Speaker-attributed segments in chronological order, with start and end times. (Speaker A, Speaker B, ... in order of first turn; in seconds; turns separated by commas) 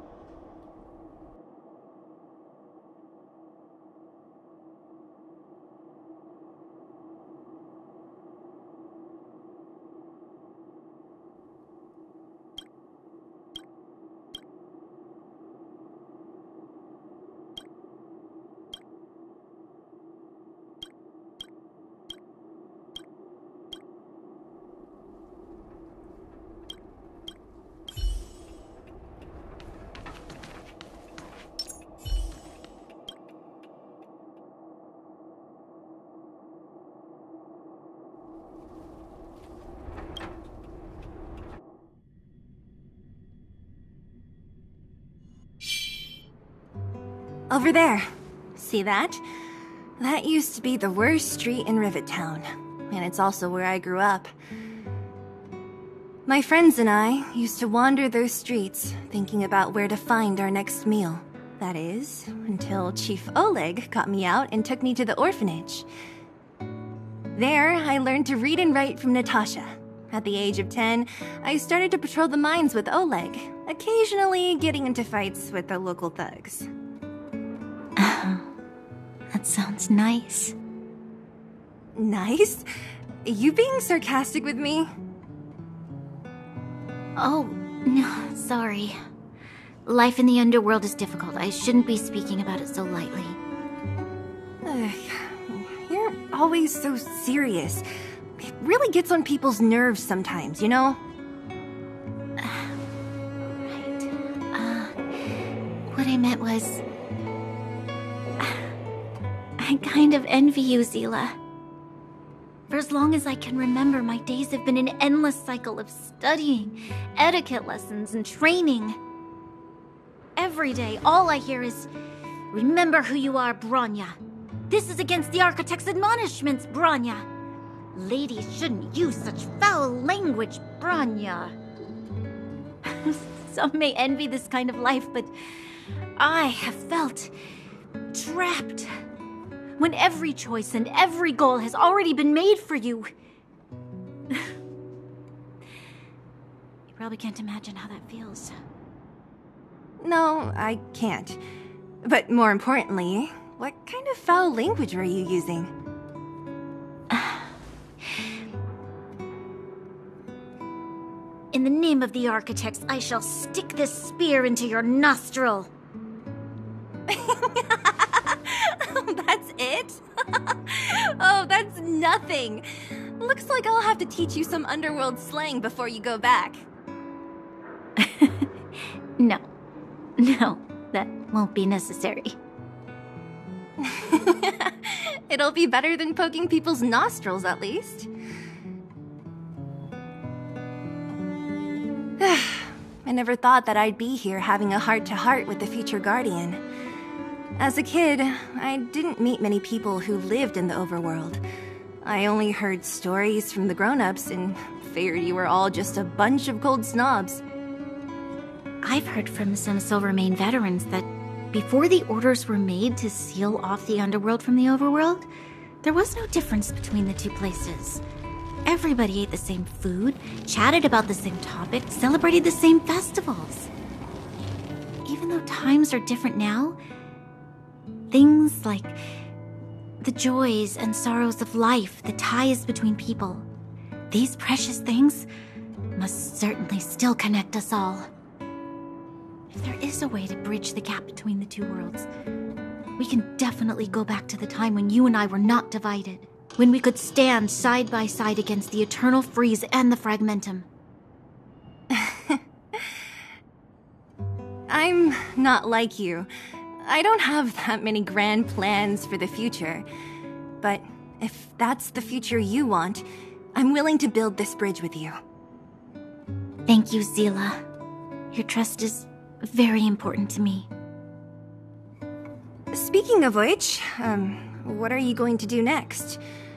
Speaker A: 47.5-49.2, Speaker A: 50.0-54.3, Speaker A: 56.3-65.9, Speaker A: 67.3-76.7, Speaker B: 78.0-78.5, Speaker B: 79.3-80.5, Speaker A: 82.0-82.6, Speaker A: 83.2-84.9, Speaker B: 87.2-88.9, Speaker B: 89.8-93.4, Speaker A: 94.7-97.8, Speaker A: 98.4-101.0, Speaker B: 102.4-102.7, Speaker B: 103.6-104.9, Speaker B: 105.9-106.8, Speaker B: 109.6-111.4, Speaker B: 112.7-119.0, Speaker B: 120.3-121.9, Speaker B: 122.5-124.2, Speaker B: 124.7-127.2, Speaker B: 127.9-131.5, Speaker B: 132.8-135.3, Speaker B: 136.2-137.3, Speaker B: 138.1-138.9, Speaker B: 139.8-143.1, Speaker B: 146.9-148.5, Speaker A: 150.0-151.4, Speaker A: 152.0-155.7, Speaker B: 157.1-157.4, Speaker B: 161.5-165.7, Speaker A: 167.1-172.6, Speaker A: 173.2-176.7, Speaker B: 178.0-178.5, Speaker B: 179.2-179.4, Speaker B: 180.2-182.4, Speaker A: 183.8-188.1, Speaker A: 192.2-196.6, Speaker A: 197.6-201.4, Speaker A: 202.0-207.4, Speaker B: 208.8-215.3, Speaker B: 215.8-218.0, Speaker B: 218.6-223.7, Speaker B: 225.0-226.8, Speaker B: 228.1-229.0, Speaker B: 230.0-233.5, Speaker B: 234.1-235.3, Speaker B: 235.9-238.1, Speaker B: 239.5-242.1, Speaker B: 243.0-250.7, Speaker A: 251.9-252.4, Speaker A: 254.7-256.3, Speaker A: 256.8-259.9, Speaker A: 260.6-265.1, Speaker B: 266.6-267.6, Speaker B: 268.3-270.7, Speaker A: 272.7-276.2